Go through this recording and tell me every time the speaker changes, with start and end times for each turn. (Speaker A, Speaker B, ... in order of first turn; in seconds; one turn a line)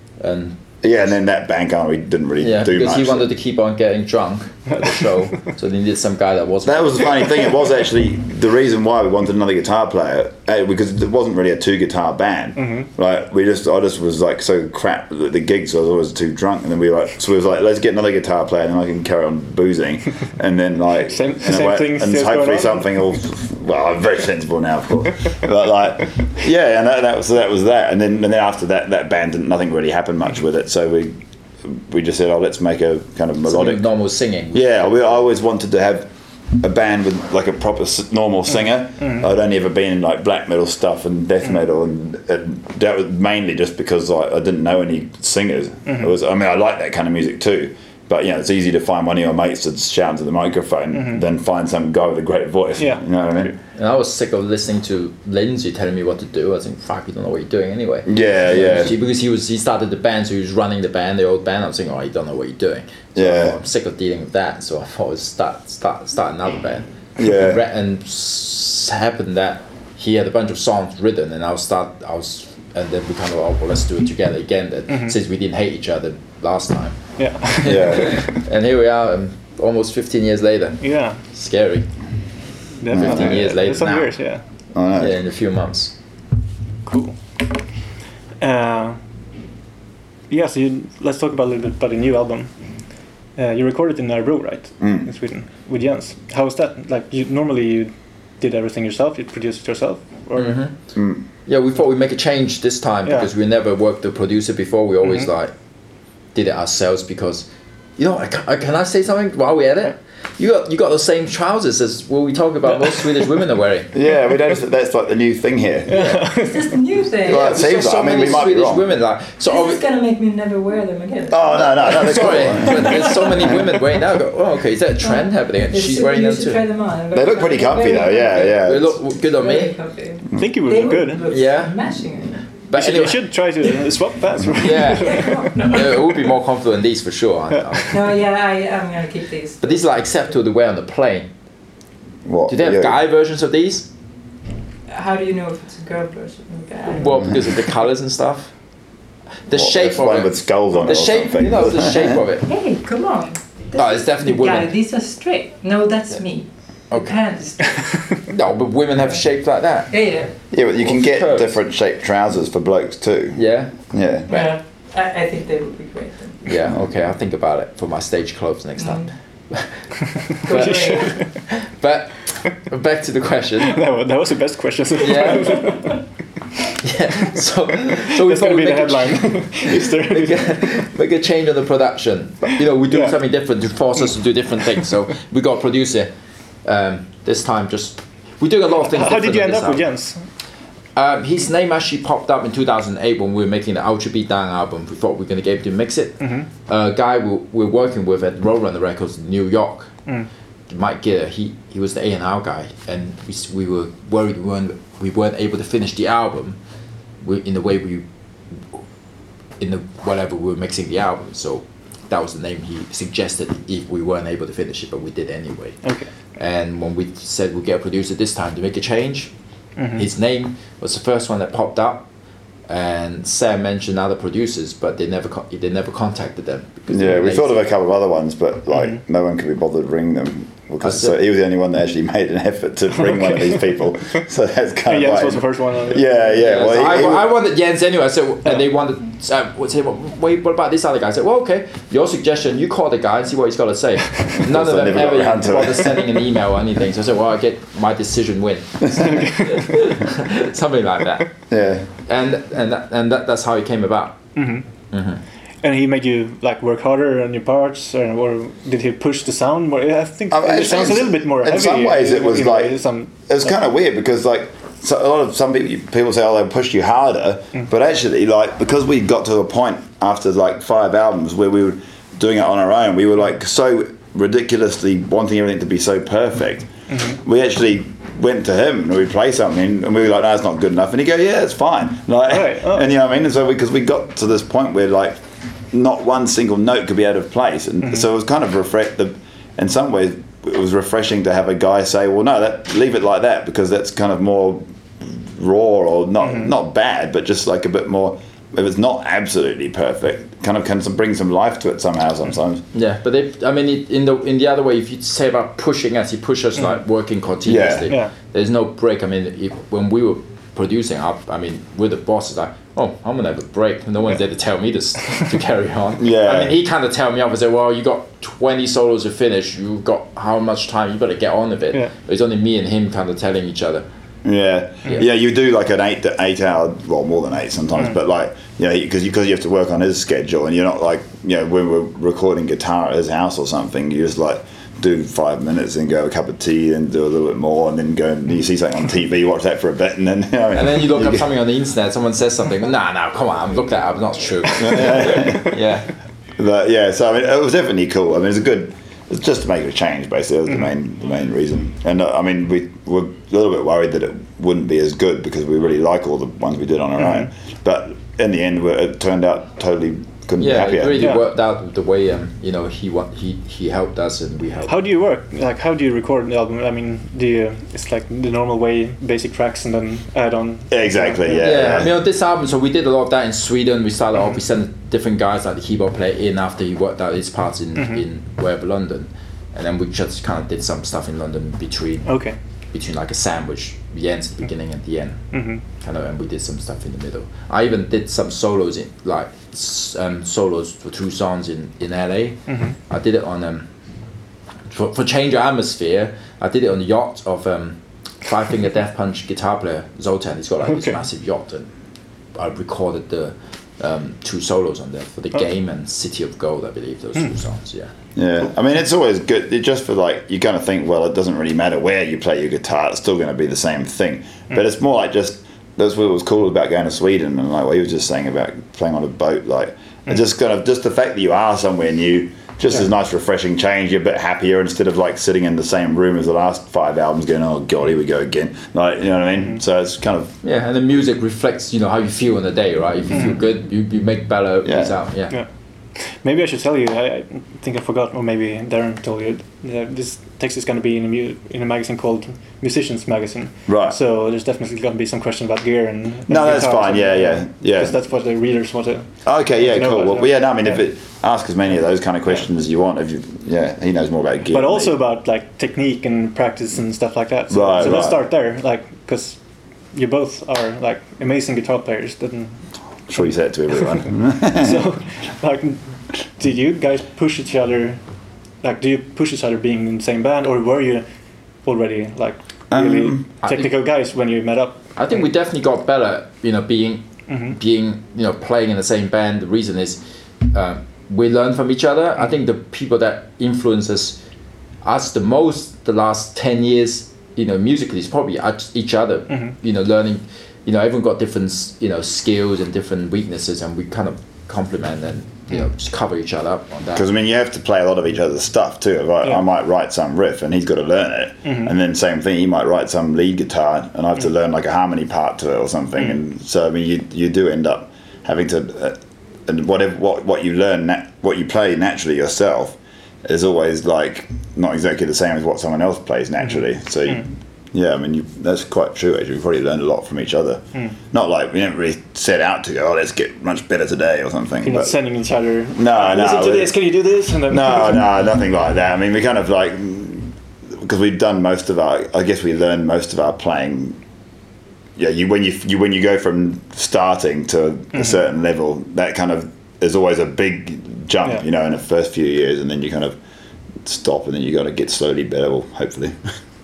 Speaker A: 0.2-0.6
Speaker B: 0.8-3.3
Speaker A: 2.4-7.5
Speaker B: 6.7-33.9
Speaker C: 12.6-12.9
Speaker C: 21.0-23.0
Speaker A: 33.4-35.2
Speaker B: 34.5-53.6
Speaker C: 50.9-51.2
Speaker C: 52.8-53.0
Speaker A: 53.8-81.9
Speaker B: 58.1-58.9
Speaker B: 63.1-63.6
Speaker B: 67.2-67.6
Speaker C: 77.2-78.2
Speaker B: 77.6-78.3
Speaker C: 80.8-81.2
Speaker C: 82.8-84.4
Speaker B: 82.9-83.5
Speaker A: 82.9-84.2
Speaker B: 84.7-85.2
Speaker A: 84.9-85.9
Speaker C: 86.8-87.2
Speaker C: 88.4-89.0
Speaker C: 90.3-92.5
Speaker C: 93.4-100.6
Speaker B: 94.8-95.1
Speaker A: 100.3-100.8
Speaker B: 101.0-101.2
Speaker A: 101.5-105.5
Speaker A: 106.3-113.9
Speaker B: 113.9-116.2
Speaker C: 115.9-116.6
Speaker A: 115.9-116.2
Speaker D: 116.4-118.5
Speaker B: 117.2-118.9
Speaker A: 117.3-119.8
Speaker D: 119.4-123.5
Speaker B: 121.3-123.5
Speaker A: 121.9-126.6
Speaker D: 125.0-128.6
Speaker B: 127.1-129.0
Speaker A: 128.3-129.7
Speaker D: 129.3-132.4
Speaker C: 130.3-131.2
Speaker A: 131.3-131.8
Speaker A: 132.7-133.3
Speaker C: 132.7-135.8
Speaker A: 134.6-138.2
Speaker D: 135.0-136.3
Speaker D: 137.9-139.8
Speaker A: 139.6-141.3
Speaker B: 142.2-143.0
Speaker A: 142.5-143.9
Speaker D: 144.9-147.1
Speaker A: 146.9-148.5
Speaker A: 149.5-152.4
Speaker B: 149.5-152.2
Speaker D: 152.4-157.8
Speaker A: 153.7-154.7
Speaker A: 156.9-157.2
Speaker A: 158.3-159.9
Speaker D: 159.9-160.3
Speaker B: 160.5-164.3
Speaker A: 160.8-161.6
Speaker A: 163.3-163.8
Speaker D: 164.3-166.4
Speaker A: 166.4-169.8
Speaker D: 168.8-169.1
Speaker D: 170.4-171.2
Speaker A: 170.5-173.8
Speaker C: 170.5-171.2
Speaker C: 173.7-176.0
Speaker A: 175.0-175.7
Speaker A: 176.7-186.1
Speaker C: 178.1-180.8
Speaker C: 182.9-183.1
Speaker A: 186.7-189.9
Speaker C: 188.8-190.2
Speaker A: 190.9-199.9
Speaker C: 196.2-196.5
Speaker A: 200.7-206.6
Speaker A: 207.2-208.1
Speaker A: 209.6-215.8
Speaker A: 216.3-219.3
Speaker C: 219.8-220.1
Speaker A: 219.9-222.1
Speaker A: 222.7-227.7
Speaker B: 226.9-237.3
Speaker A: 230.8-231.2
Speaker C: 234.9-236.8
Speaker A: 236.4-251.4
Speaker B: 244.3-245.9
Speaker C: 249.2-249.8
Speaker B: 251.5-251.9
Speaker A: 252.0-254.3
Speaker C: 254.3-254.7
Speaker A: 254.9-255.2
Speaker C: 255.6-263.3
Speaker B: 260.3-302.6
Speaker C: 276.9-277.2
Speaker C: 282.3-282.9
Speaker C: 296.2-296.5
Speaker A: 302.7-323.9
Speaker B: 307.4-307.9
Speaker C: 307.9-308.1
Speaker B: 316.0-316.6
Speaker B: 324.2-341.3
Speaker A: 340.5-345.9
Speaker B: 344.6-345.6
Speaker B: 346.4-361.1
Speaker A: 360.4-364.8
Speaker C: 361.0-361.2
Speaker C: 364.7-371.5
Speaker B: 370.7-371.9
Speaker A: 371.3-382.1
Speaker C: 377.8-378.0
Speaker C: 382.1-382.4
Speaker A: 382.7-393.7
Speaker C: 385.3-385.6
Speaker C: 392.5-392.8
Speaker A: 394.7-401.7
Speaker C: 400.7-401.0
Speaker A: 402.3-407.9
Speaker B: 408.1-430.3
Speaker A: 430.4-435.4
Speaker B: 434.6-434.9
Speaker C: 435.3-449.1
Speaker B: 443.7-444.0
Speaker B: 446.3-448.0
Speaker B: 449.2-455.0
Speaker C: 449.6-450.8
Speaker C: 454.5-459.4
Speaker B: 457.5-458.2
Speaker C: 459.9-462.6
Speaker B: 463.1-464.9
Speaker C: 464.0-468.0
Speaker C: 468.6-471.1
Speaker C: 471.6-474.9
Speaker B: 472.7-473.3
Speaker A: 473.4-473.7
Speaker A: 474.9-484.2
Speaker C: 477.3-477.6
Speaker A: 484.8-497.1
Speaker B: 496.9-525.0
Speaker C: 501.4-501.7
Speaker C: 516.5-517.3
Speaker C: 524.6-528.1
Speaker B: 525.7-526.8
Speaker B: 527.5-534.0
Speaker B: 535.0-543.2
Speaker B: 543.8-546.2